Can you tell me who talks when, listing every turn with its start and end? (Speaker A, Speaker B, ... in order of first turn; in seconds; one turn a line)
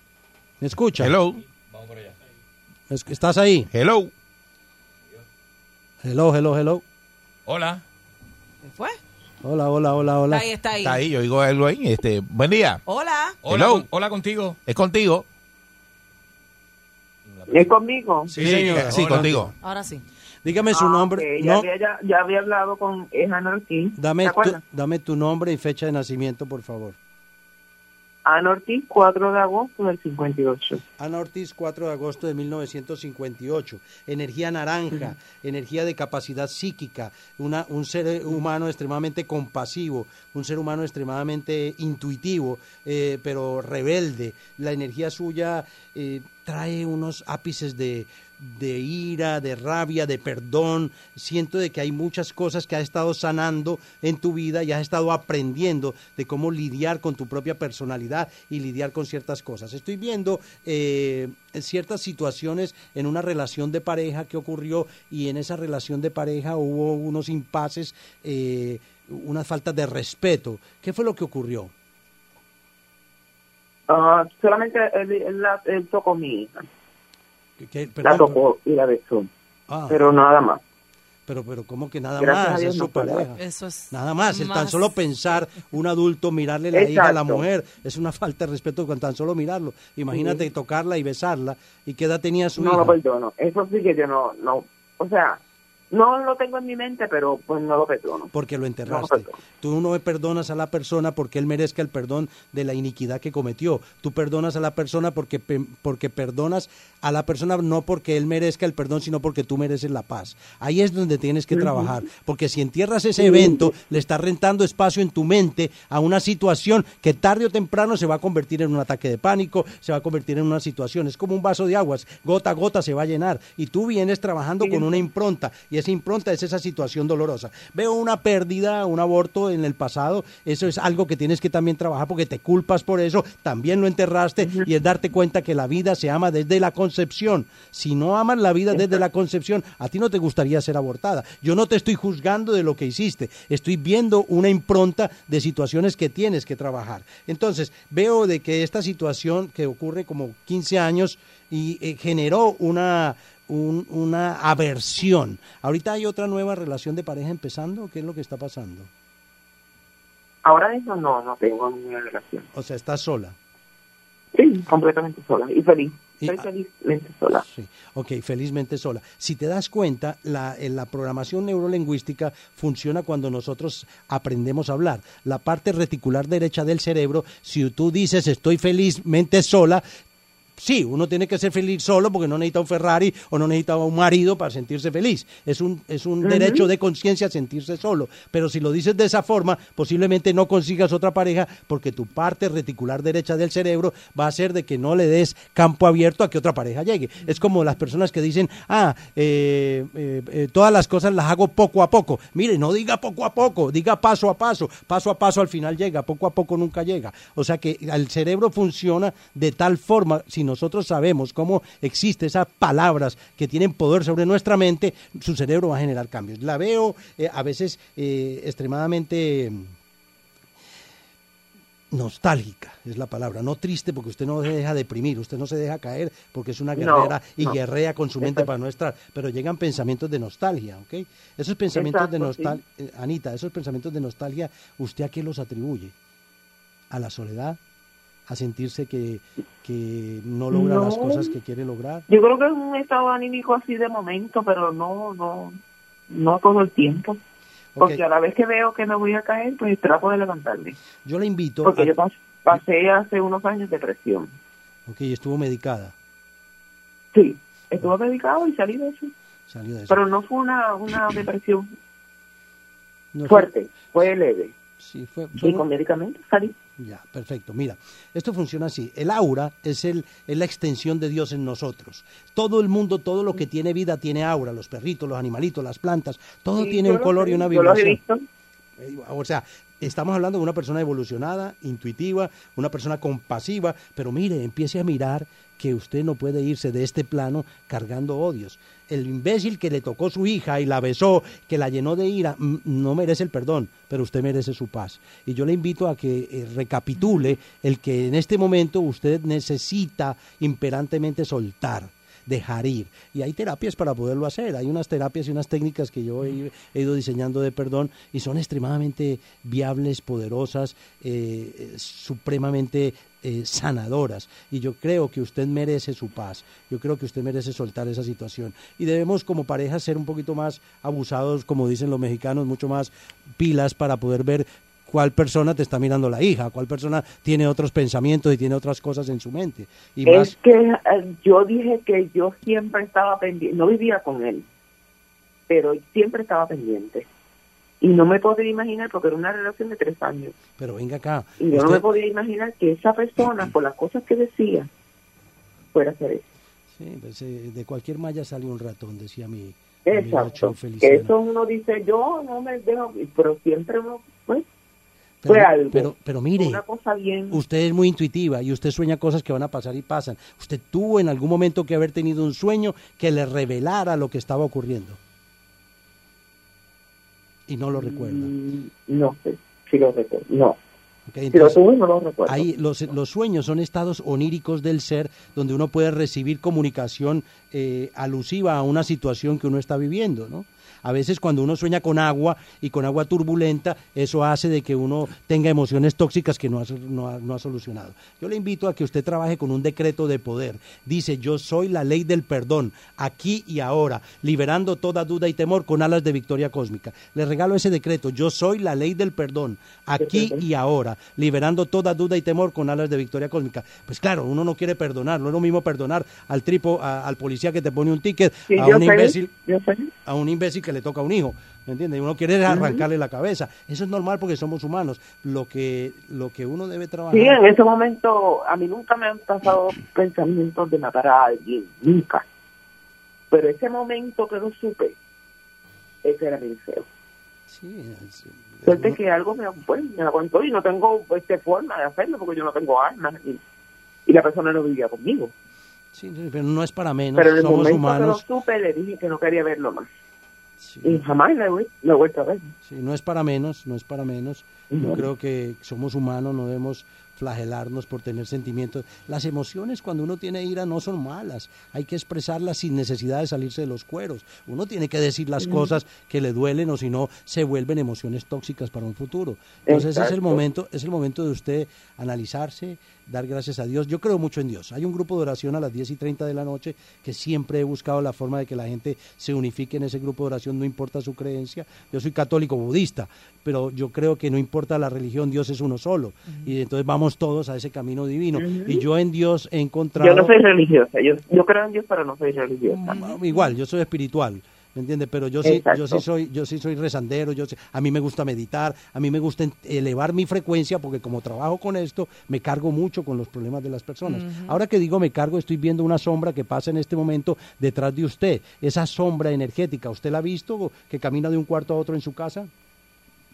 Speaker A: 0.6-1.1
Speaker B: 1.0-1.4
Speaker C: 1.7-2.1
Speaker A: 2.9-3.7
Speaker B: 3.7-4.1
Speaker A: 6.0-6.8
Speaker C: 7.5-7.8
Speaker D: 8.6-9.0
Speaker A: 9.4-10.4
Speaker D: 10.3-11.0
Speaker B: 10.8-12.8
Speaker D: 12.9-13.4
Speaker C: 13.4-14.6
Speaker B: 13.5-13.9
Speaker B: 14.7-15.2
Speaker C: 17.3-17.7
Speaker E: 17.5-18.3
Speaker A: 18.3-19.3
Speaker C: 18.4-19.5
Speaker B: 18.8-19.5
Speaker D: 19.6-20.0
Speaker A: 20.4-21.6
Speaker E: 20.7-24.6
Speaker A: 24.0-26.9
Speaker E: 28.2-30.8
Speaker A: 31.0-71.7
Speaker E: 73.9-76.7
Speaker A: 77.6-78.4
Speaker E: 78.0-79.3
Speaker A: 79.7-80.0
Speaker E: 79.9-80.6
Speaker A: 81.3-83.4
Speaker E: 82.2-83.3
Speaker D: 83.4-84.9
Speaker A: 83.9-92.9
Speaker E: 86.7-87.4
Speaker E: 92.6-95.4
Speaker E: 95.9-98.3
Speaker A: 98.3-158.9
Speaker E: 98.9-99.4
Speaker E: 111.6-111.8
Speaker E: 124.6-125.0
Speaker E: 134.4-134.7
Speaker E: 160.4-162.4
Speaker A: 162.5-163.4
Speaker E: 164.3-167.4
Speaker A: 166.2-166.4
Speaker A: 167.5-179.8
Speaker A: 180.6-219.7
Speaker E: 186.2-186.7
Speaker A: 221.9-235.9
Speaker E: 226.8-227.6
Speaker E: 228.2-228.5
Speaker E: 231.7-232.6
Speaker A: 236.9-237.6
Speaker A: 238.3-242.1
Speaker E: 240.5-241.3
Speaker E: 242.1-245.6
Speaker E: 246.1-247.2
Speaker A: 247.8-248.0
Speaker E: 247.8-250.8
Speaker A: 251.1-251.9
Speaker E: 251.6-254.3
Speaker A: 254.9-255.9
Speaker E: 257.1-259.1
Speaker A: 259.5-260.0
Speaker E: 259.9-261.7
Speaker A: 263.1-263.5
Speaker E: 263.3-264.5
Speaker A: 264.8-265.6
Speaker E: 265.3-266.5
Speaker A: 266.8-278.0
Speaker E: 276.6-278.2
Speaker A: 278.8-330.3
Speaker E: 330.1-334.4
Speaker E: 335.5-337.1
Speaker E: 337.8-340.4
Speaker A: 340.6-341.8
Speaker E: 341.4-344.7
Speaker E: 345.7-346.2
Speaker A: 346.8-351.1
Speaker E: 349.8-354.4
Speaker A: 355.2-356.6
Speaker E: 355.2-357.4
Speaker A: 357.3-365.0
Speaker A: 367.5-368.3
Speaker E: 367.7-370.6
Speaker A: 371.1-371.6
Speaker E: 371.3-372.5
Speaker A: 372.2-409.3
Speaker E: 400.0-400.4
Speaker E: 408.5-409.9
Speaker A: 410.1-417.4
Speaker E: 412.5-412.8
Speaker E: 417.1-422.2
Speaker E: 423.3-424.9
Speaker E: 426.0-426.9
Speaker A: 427.5-429.0
Speaker E: 428.6-433.4
Speaker E: 434.1-435.3
Speaker A: 435.9-438.2
Speaker E: 437.1-439.9
Speaker A: 440.6-441.0
Speaker E: 440.8-442.5
Speaker A: 442.6-480.3
Speaker E: 444.7-445.1
Speaker E: 455.4-455.7
Speaker E: 459.6-460.4
Speaker E: 478.4-478.8
Speaker E: 480.0-483.5
Speaker A: 482.7-502.5
Speaker E: 485.4-486.0
Speaker D: 494.1-494.5